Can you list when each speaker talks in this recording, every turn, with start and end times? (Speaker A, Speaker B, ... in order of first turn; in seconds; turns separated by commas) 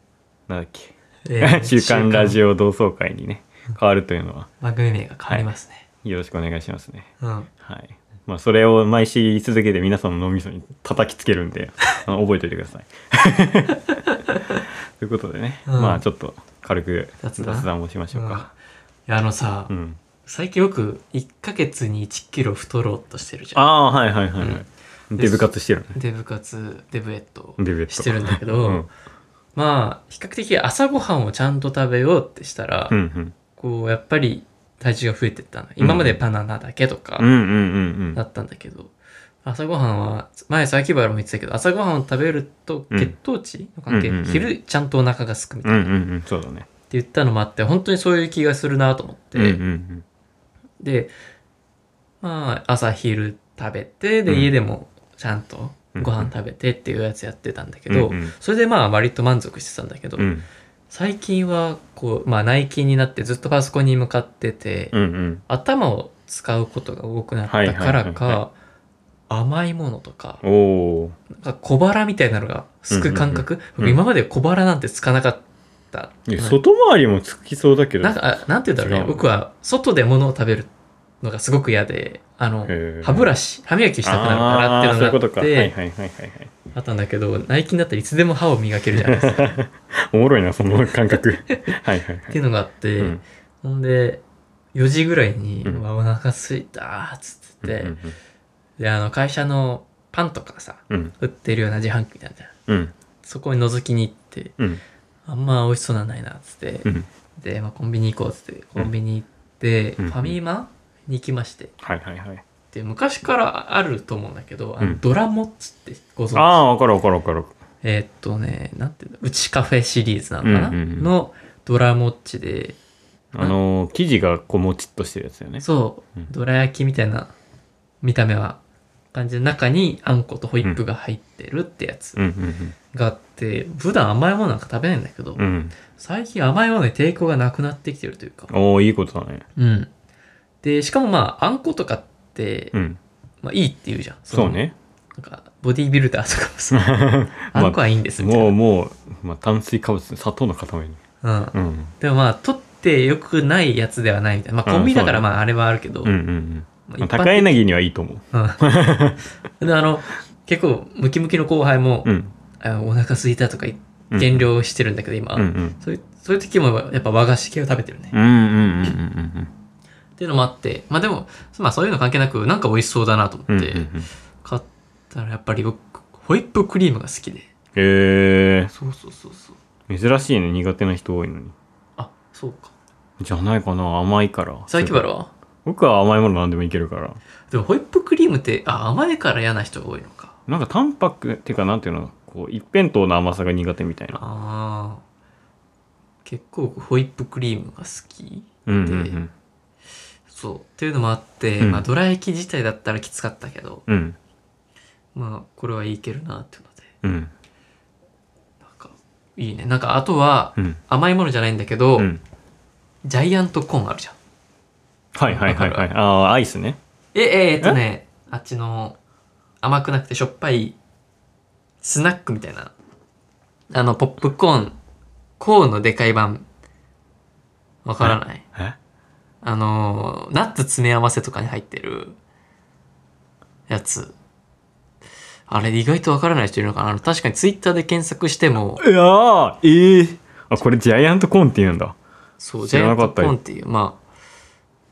Speaker A: 0.5-4.5, Speaker B: 1.3-2.4, Speaker B: 4.6-5.8, Speaker A: 6.0-7.1, Speaker B: 7.2-7.5, Speaker A: 7.6-13.9, Speaker B: 13.8-14.6, Speaker A: 15.0-18.5, Speaker B: 15.7-16.0, Speaker B: 17.2-18.5, Speaker B: 19.1-19.7, Speaker A: 19.7-20.0, Speaker B: 20.2-23.6, Speaker A: 23.6-26.0, Speaker B: 24.4-24.6, Speaker B: 25.2-28.9, Speaker A: 27.6-28.9, Speaker B: 29.6-33.0, Speaker A: 32.9-33.4, Speaker B: 33.5-37.3, Speaker A: 35.8-36.2, Speaker A: 37.2-38.2, Speaker B: 38.1-38.9, Speaker B: 39.4-46.0, Speaker A: 43.9-44.5, Speaker A: 45.6-46.7, Speaker B: 46.9-49.6, Speaker A: 49.4-50.0, Speaker B: 50.8-51.1, Speaker B: 52.2-60.3, Speaker A: 54.3-54.5, Speaker A: 56.0-56.3, Speaker A: 57.9-58.3, Speaker A: 60.2-60.5, Speaker B: 60.9-64.9, Speaker A: 64.9-65.4, Speaker B: 65.5-68.5, Speaker A: 67.5-68.4, Speaker B: 69.3-70.4, Speaker A: 70.4-71.2, Speaker B: 71.3-76.6, Speaker A: 72.9-74.0, Speaker A: 76.3-78.2, Speaker B: 78.0-80.7, Speaker A: 78.8-79.3, Speaker B: 81.2-85.8, Speaker A: 82.7-83.3, Speaker A: 84.0-86.5, Speaker B: 86.7-89.6, Speaker A: 88.9-92.4, Speaker B: 92.3-94.2, Speaker A: 93.0-93.2, Speaker B: 94.7-98.0, Speaker A: 97.6-98.2, Speaker B: 98.8-102.5, Speaker A: 100.9-101.2, Speaker A: 102.7-102.9, Speaker B: 103.2-104.6, Speaker B: 105.3-111.7, Speaker A: 110.0-110.4, Speaker A: 111.8-112.4, Speaker B: 112.7-116.6, Speaker A: 116.3-117.5, Speaker B: 117.8-122.8, Speaker A: 120.4-121.1, Speaker A: 123.3-125.7, Speaker B: 125.6-127.3, Speaker B: 128.0-128.6, Speaker B: 129.1-132.2, Speaker A: 132.2-132.8, Speaker B: 132.9-138.5, Speaker A: 135.4-135.8, Speaker A: 138.5-139.4, Speaker B: 139.6-139.9, Speaker B: 140.6-142.7, Speaker A: 142.7-143.0, Speaker B: 143.4-144.6, Speaker A: 144.3-144.8, Speaker B: 145.2-146.9, Speaker A: 146.7-151.0, Speaker B: 147.5-148.6, Speaker B: 151.2-156.1, Speaker A: 151.5-151.9, Speaker A: 154.7-155.3, Speaker A: 156.0-159.2, Speaker B: 156.9-157.6, Speaker B: 158.3-158.6, Speaker B: 159.6-162.1, Speaker A: 162.1-162.3, Speaker B: 162.6-168.1, Speaker A: 164.1-164.5, Speaker A: 165.4-165.8, Speaker A: 168.1-169.5, Speaker B: 170.2-173.9, Speaker A: 173.5-174.1, Speaker B: 174.4-177.5, Speaker A: 177.8-178.7, Speaker B: 178.7-179.6, Speaker A: 179.9-181.6, Speaker B: 182.0-182.7, Speaker A: 183.2-185.1, Speaker B: 184.7-185.3, Speaker A: 185.7-187.2, Speaker B: 187.5-190.3, Speaker A: 190.5-194.2, Speaker B: 194.2-195.0, Speaker B: 196.2-199.2, Speaker A: 198.7-199.3, Speaker B: 200.3-203.8, Speaker A: 201.6-201.9, Speaker A: 203.9-204.2, Speaker B: 205.2-206.9, Speaker A: 207.0-207.3, Speaker B: 208.6-212.1, Speaker B: 213.0-214.2, Speaker A: 215.2-216.8, Speaker B: 215.2-215.9, Speaker B: 217.1-219.0, Speaker B: 219.6-220.8, Speaker B: 221.8-222.7, Speaker B: 223.7-224.8, Speaker B: 225.4-226.4, Speaker B: 227.8-228.5, Speaker A: 228.0-228.8, Speaker B: 229.4-232.2, Speaker B: 233.7-234.2, Speaker B: 235.5-238.8, Speaker A: 238.8-242.0, Speaker B: 242.4-244.0, Speaker A: 242.6-243.4